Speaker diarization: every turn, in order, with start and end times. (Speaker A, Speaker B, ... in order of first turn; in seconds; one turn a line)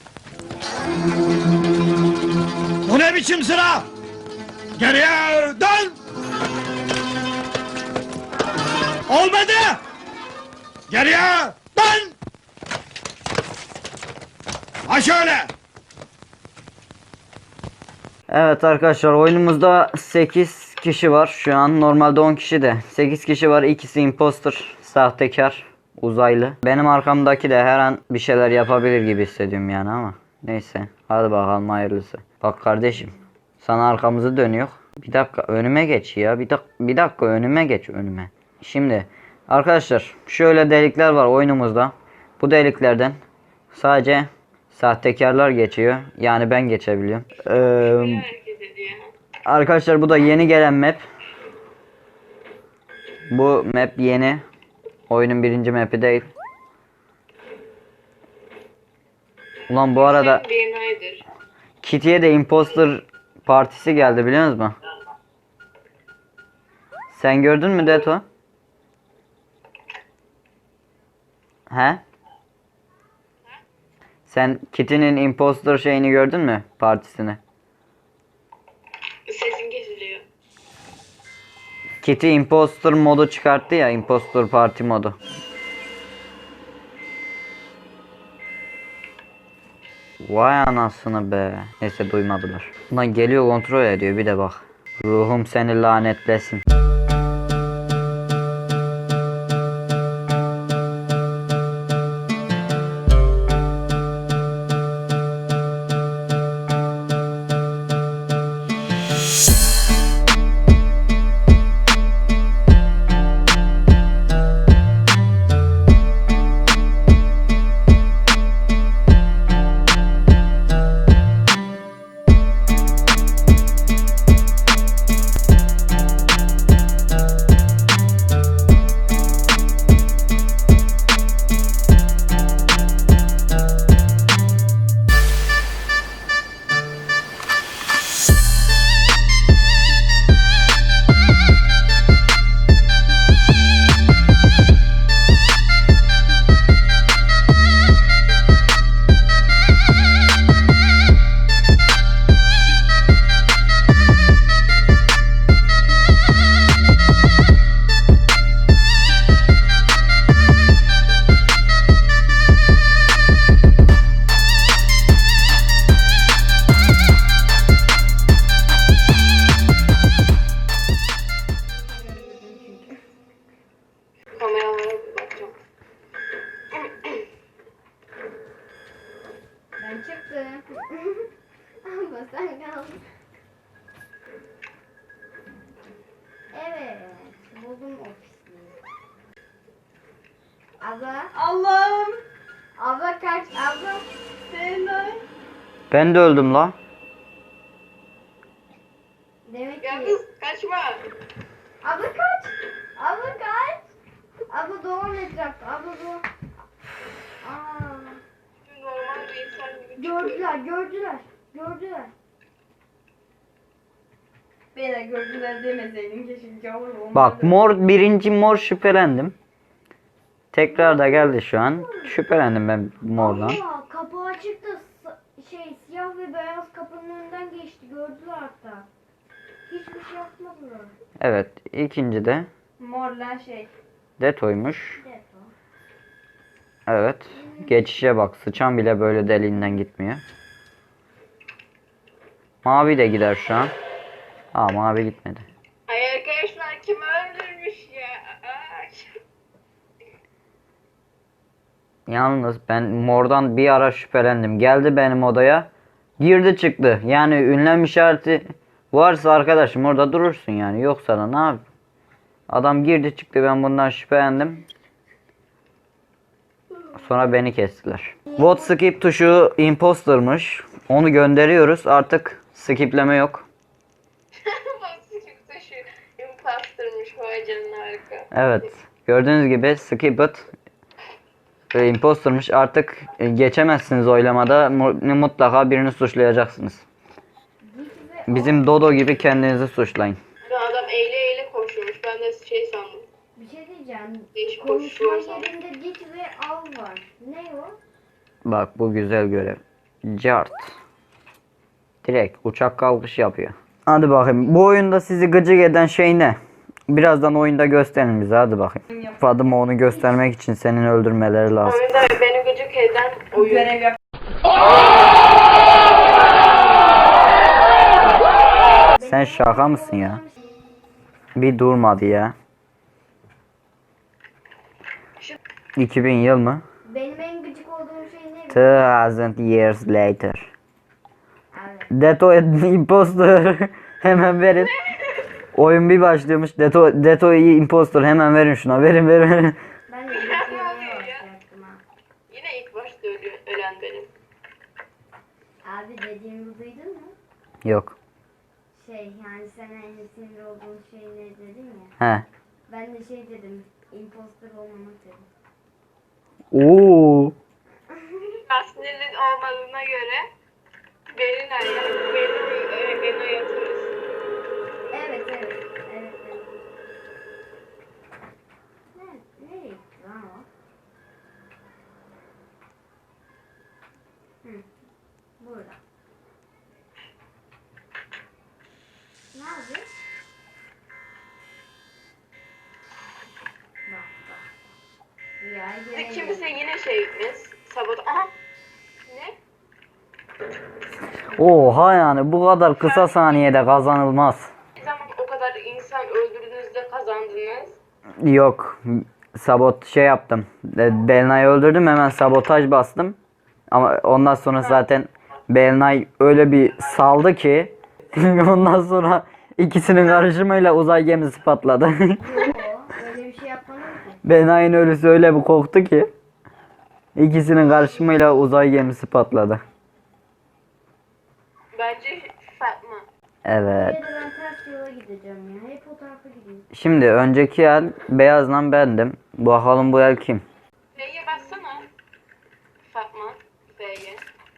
Speaker A: 2.9-3.9
Speaker A: 4.8-6.0
Speaker A: 9.1-9.8
Speaker A: 10.9-12.1
Speaker A: 14.9-15.5
Speaker B: 18.3-43.2
Speaker B: 43.7-48.2
Speaker C: 47.4-49.1
Speaker B: 49.5-51.0
Speaker B: 53.3-54.4
Speaker B: 55.1-56.3
Speaker B: 59.7-60.4
Speaker C: 59.7-61.2
Speaker B: 61.8-64.8
Speaker B: 67.1-68.2
Speaker B: 71.7-72.0
Speaker B: 74.3-77.4
Speaker C: 79.3-80.2
Speaker B: 82.0-85.2
Speaker B: 90.2-96.6
Speaker D: 171.8-173.0
Speaker C: 174.3-175.5
Speaker C: 176.8-177.2
Speaker D: 179.8-181.3
Speaker D: 181.8-183.0
Speaker D: 186.5-188.8
Speaker D: 190.8-191.3
Speaker E: 191.3-192.2
Speaker D: 192.8-194.1
Speaker E: 194.5-195.2
Speaker B: 195.9-196.8
Speaker D: 199.4-200.2
Speaker C: 199.8-201.0
Speaker D: 201.8-203.8
Speaker D: 204.5-206.3
Speaker D: 207.4-208.2
Speaker C: 208.6-210.5
Speaker D: 209.9-212.1
Speaker E: 214.7-217.7
Speaker B: 217.1-219.3
Speaker B: 220.5-223.6
Speaker D: 220.7-222.2
Speaker D: 223.1-228.9
Speaker D: 229.7-231.0
Speaker B: 231.2-232.5
Speaker E: 232.8-233.7
Speaker B: 234.2-235.0
Speaker D: 234.8-235.5
Speaker B: 236.9-240.2
Speaker D: 237.3-237.9
Speaker B: 242.6-243.8
Speaker B: 244.5-245.4
Speaker C: 245.9-249.1
Speaker B: 252.1-261.6
Speaker B: 262.5-264.6
Speaker B: 266.9-273.4
Speaker D: 268.3-268.7
Speaker C: 274.4-278.3
Speaker B: 278.3-280.5
Speaker B: 281.7-286.8
Speaker D: 287.6-289.3
Speaker B: 288.3-290.2
Speaker C: 290.4-293.1
Speaker D: 293.4-297.8
Speaker C: 294.3-295.5
Speaker B: 298.4-300.7
Speaker B: 302.0-306.4
Speaker B: 306.9-311.8
Speaker E: 308.9-309.2
Speaker D: 309.8-310.2
Speaker C: 311.6-313.7
Speaker E: 313.3-314.0
Speaker D: 316.3-316.9
Speaker D: 318.9-320.5
Speaker B: 319.0-320.2
Speaker B: 321.4-322.3
Speaker B: 325.8-326.6
Speaker D: 326.8-328.7
Speaker B: 328.5-330.5
Speaker D: 331.5-331.9
Speaker B: 331.9-334.7
Speaker C: 334.6-335.2
Speaker B: 335.6-339.6
Speaker D: 339.9-341.8
Speaker C: 340.1-341.2
Speaker C: 342.3-344.1
Speaker D: 345.6-347.1
Speaker B: 347.6-347.9
Speaker D: 348.7-351.9
Speaker B: 352.0-352.2
Speaker D: 352.7-355.3
Speaker B: 356.5-357.3
Speaker D: 357.9-358.4
Speaker C: 358.4-360.3
Speaker C: 361.1-363.9
Speaker D: 364.9-366.6
Speaker D: 368.9-370.5
Speaker D: 375.4-375.8
Speaker D: 379.3-379.9
Speaker D: 383.9-384.6
Speaker D: 385.4-386.5
Speaker C: 385.9-388.3
Speaker C: 389.1-389.4
Speaker B: 391.3-394.5
Speaker C: 392.8-393.6
Speaker C: 394.8-397.8
Speaker B: 398.2-403.2
Speaker B: 403.7-412.5
Speaker D: 412.2-414.2
Speaker B: 414.2-416.1
Speaker B: 417.1-419.6
Speaker C: 421.7-423.1
Speaker B: 423.4-424.0
Speaker D: 423.7-426.6
Speaker B: 426.7-430.4
Speaker C: 430.9-431.9
Speaker C: 432.9-434.2